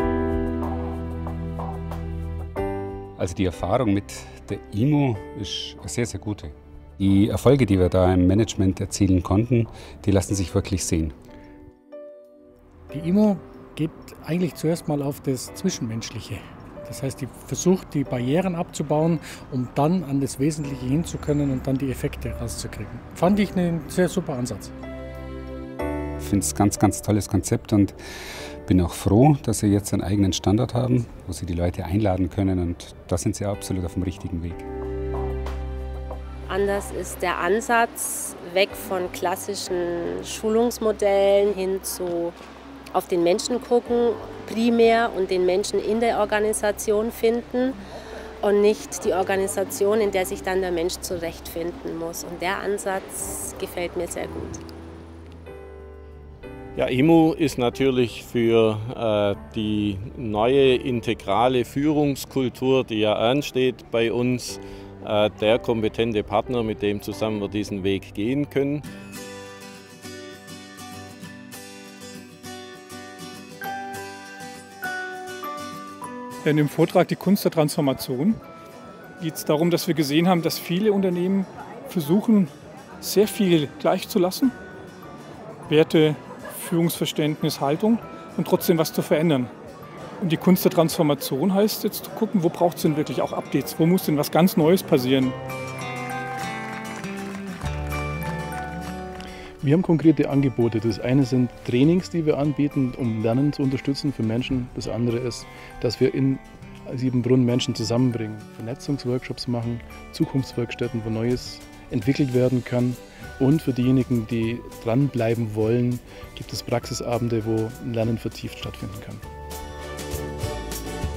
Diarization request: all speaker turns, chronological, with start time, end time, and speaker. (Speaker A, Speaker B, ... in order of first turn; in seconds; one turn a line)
Speaker A: 3.2-11.2
Speaker B: 12.9-24.7
Speaker A: 26.2-28.0
Speaker A: 28.7-34.7
Speaker C: 36.5-42.4
Speaker C: 42.9-47.8
Speaker C: 48.4-54.6
Speaker D: 56.8-68.8
Speaker E: 76.5-78.4
Speaker E: 79.2-82.5
Speaker E: 83.0-84.5
Speaker E: 85.7-89.5
Speaker E: 90.2-95.3
Speaker F: 99.6-119.2